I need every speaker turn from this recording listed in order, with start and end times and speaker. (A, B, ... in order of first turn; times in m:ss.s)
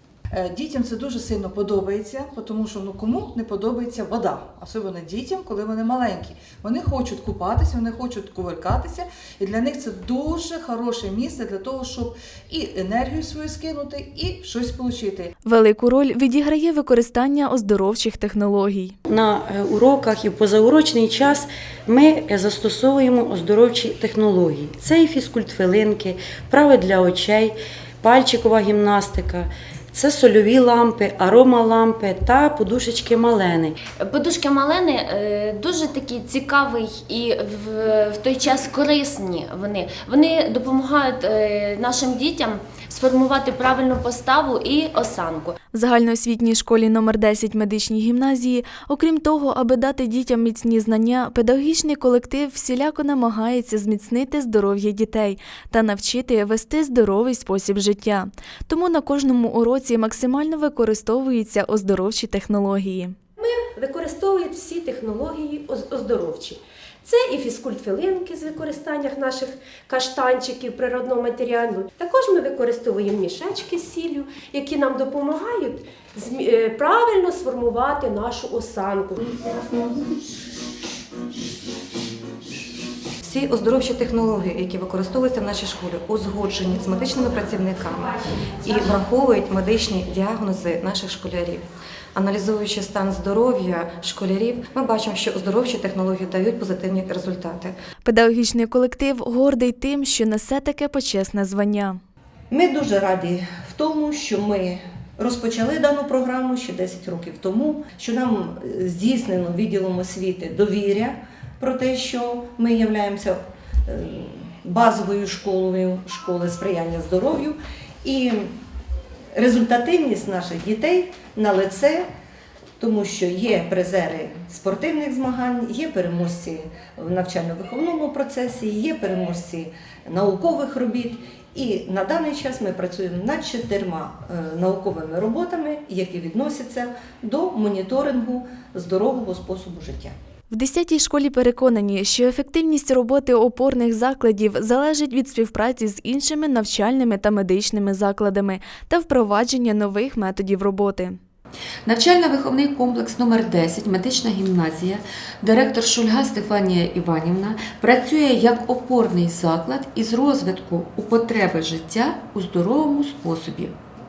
0:00.3-0:15.3 A
0:15.4-0:19.0 B
0:19.1-0:33.8 C
0:34.0-0:45.6 D
0:45.7-1:03.2 B
1:03.4-1:19.3 E
1:23.2-1:31.6 F
1:32.2-1:37.7 F
1:38.0-1:42.0 B
1:42.5-1:58.6 G
1:59.3-2:02.1 G
2:02.8-2:20.1 G
2:20.5-2:31.2 B
2:31.8-2:43.8 H